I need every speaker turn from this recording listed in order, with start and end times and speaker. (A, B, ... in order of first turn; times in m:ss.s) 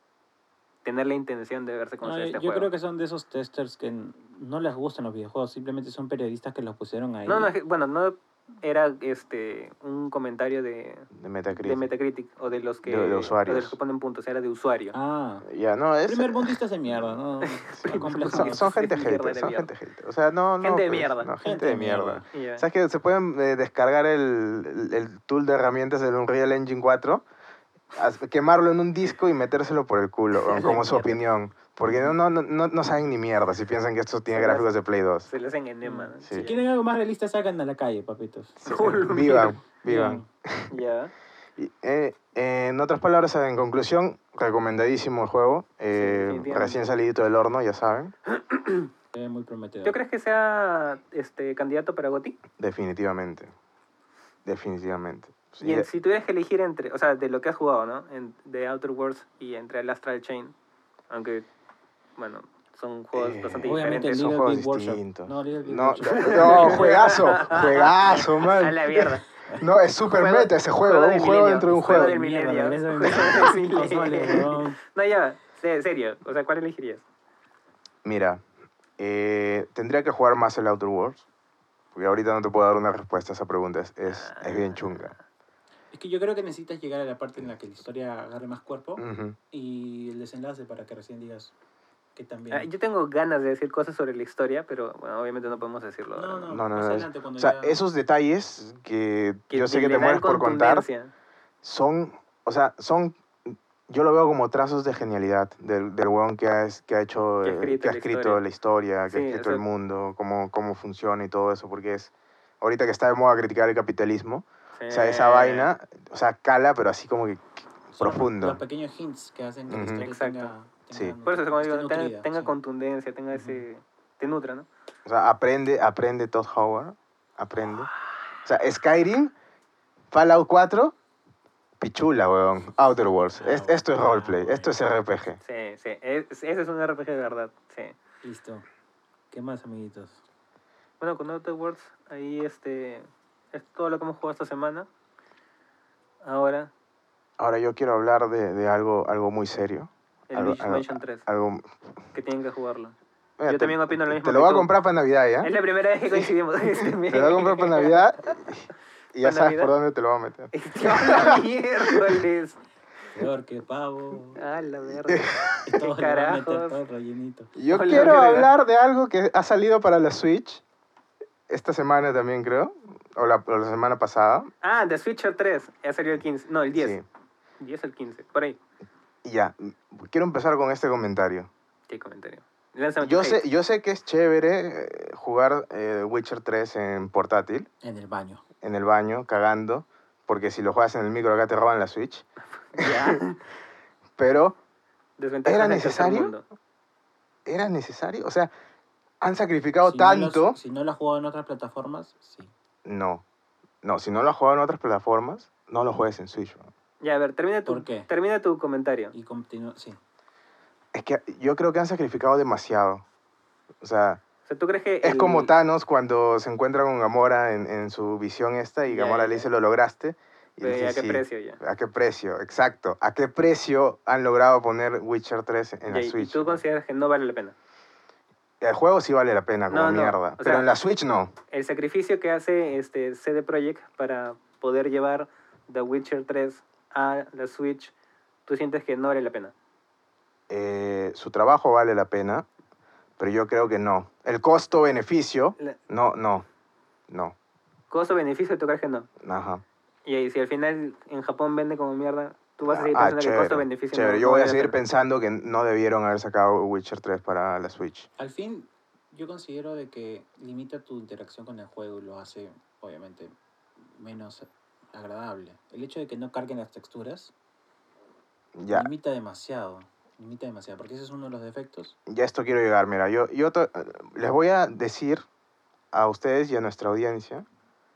0:00.8-0:02.7 A
0:02.0-0:07.5 B
0:07.2-0:14.9 A
0:11.1-0:11.9 C
0:12.8-0:13.8 C
0:14.9-0:15.4 B
0:15.4-0:17.1 C
0:16.0-0:18.7 B
0:17.7-0:27.2 C
0:17.9-0:19.7 A
0:20.6-0:21.3 A
0:21.4-0:22.3 B
0:22.3-0:22.6 A
0:27.9-0:35.3 C
0:30.4-0:31.2 A
0:31.8-0:32.1 B
0:34.3-0:34.7 A
0:35.3-0:36.6 A
0:35.8-0:40.3 B
0:38.6-0:40.7 C
0:38.7-0:39.5 A
0:40.7-0:41.1 A
0:41.6-0:48.1 C
0:45.9-0:46.8 A
0:48.3-0:48.9 A
0:49.1-0:50.0 B
0:49.8-0:52.4 A
0:52.6-0:53.5 C
0:54.4-0:55.9 C
0:55.6-1:00.5 A
1:01.1-1:01.4 A
1:02.2-1:04.3 A
1:03.1-1:12.2 C
1:03.6-1:07.2 B
1:06.1-1:09.2 A
1:09.4-1:09.7 B
1:10.1-1:17.0 A
1:11.7-1:14.8 B
1:18.0-1:18.4 C
1:19.0-1:21.2 C
1:21.9-1:25.2 C
1:24.0-1:25.1 A
1:25.9-1:31.5 B
1:29.0-1:29.4 C
1:32.1-1:32.7 B
1:32.5-1:36.5 A
1:36.1-1:37.8 B
1:36.5-1:40.8 C
1:39.5-1:41.1 A
1:41.6-1:58.6 C
1:47.4-1:48.4 A
1:49.1-1:49.6 A
1:54.8-1:55.7 A
1:58.0-2:02.5 B
1:59.7-2:00.0 C
2:00.0-2:00.5 A
2:01.2-2:04.7 A
2:03.3-2:03.6 B
2:05.0-2:07.9 C
2:08.4-2:09.3 C
2:10.1-2:10.9 C
2:11.8-2:15.4 C
2:13.3-2:14.7 B
2:15.4-2:18.0 A
2:18.2-2:18.6 B
2:19.3-2:20.2 B
2:21.0-2:24.9 A
2:26.2-2:26.7 A
2:27.4-2:31.6 C
2:30.3-2:31.2 A
2:32.1-2:33.0 A
2:33.4-2:35.5 C
2:33.5-2:34.7 A
2:35.4-2:38.0 A
2:36.8-2:42.2 C
2:39.2-2:39.7 A
2:40.5-2:42.6 A
2:43.1-2:44.4 B
2:44.3-2:46.8 A
2:45.0-2:45.7 C
2:45.6-2:47.5 B
2:47.6-2:50.6 C
2:47.7-2:48.5 A
2:51.5-2:54.5 C
2:54.6-2:57.0 A
2:56.7-2:57.0 C
2:57.6-2:58.6 A
2:59.2-3:01.5 C
3:01.9-3:03.4 A
3:03.0-3:07.7 C
3:07.8-3:08.4 B
3:08.6-3:12.2 C
3:12.7-3:13.4 A
3:12.8-3:13.2 C
3:14.2-3:14.6 C
3:15.2-3:16.4 A
3:15.4-3:16.3 C
3:17.4-3:18.5 C
3:19.2-3:20.6 C
3:19.8-3:22.5 B
3:22.8-3:23.2 C
3:23.8-3:26.7 C
3:27.0-3:29.1 A
3:27.6-3:28.1 B
3:29.1-3:30.0 B
3:30.9-3:33.0 C
3:33.8-3:34.2 C
3:34.5-3:35.5 A
3:35.0-3:46.6 C
3:38.9-3:39.5 A
3:40.6-3:41.6 A
3:45.9-3:47.5 A
3:48.6-3:51.3 C
3:49.7-3:50.7 A
3:51.5-3:57.9 A
3:58.5-3:59.5 A
4:00.5-4:02.4 C
4:03.2-4:06.4 C
4:07.1-4:07.4 C
4:07.9-4:09.1 A
4:09.2-4:09.6 C
4:10.0-4:14.8 A
4:12.7-4:18.1 C
4:18.2-4:27.3 B
4:28.5-4:28.9 C
4:28.7-4:31.9 B
4:32.1-4:35.2 C
4:35.9-4:37.4 C